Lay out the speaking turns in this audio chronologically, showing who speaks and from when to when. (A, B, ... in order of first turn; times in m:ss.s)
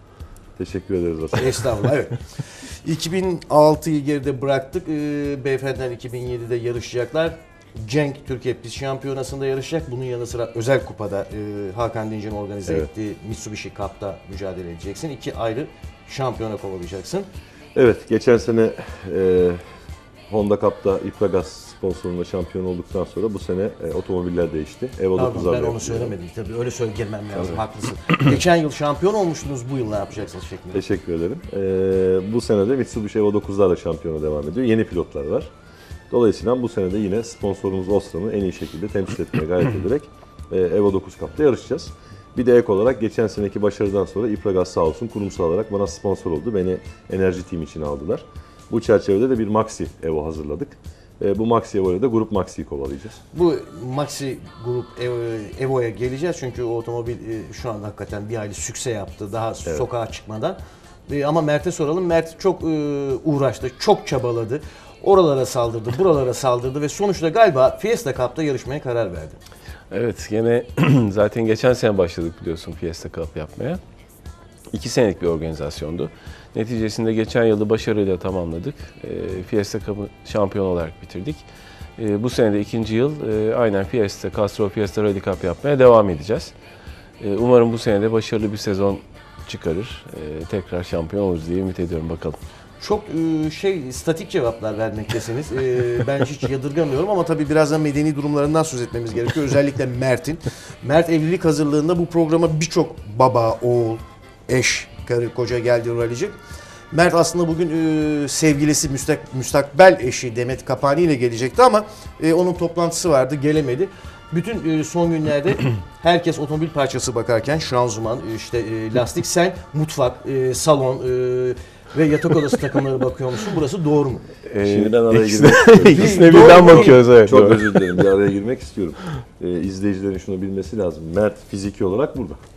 0:00.6-0:01.8 A
0:01.4-0:17.3 B
0:17.8-0:19.6 A
0:20.3-0:26.2 A
0:25.2-0:30.8 B
0:30.7-0:35.5 A
0:36.1-0:53.2 A
0:53.3-1:09.4 B
1:09.9-1:13.8 C
1:14.7-1:21.4 C
1:22.0-1:26.5 C
1:27.2-1:32.4 C
1:32.8-1:46.4 B
1:46.9-2:04.3 B
2:04.5-2:08.0 C
2:04.6-2:12.4 A
2:05.9-2:07.0 B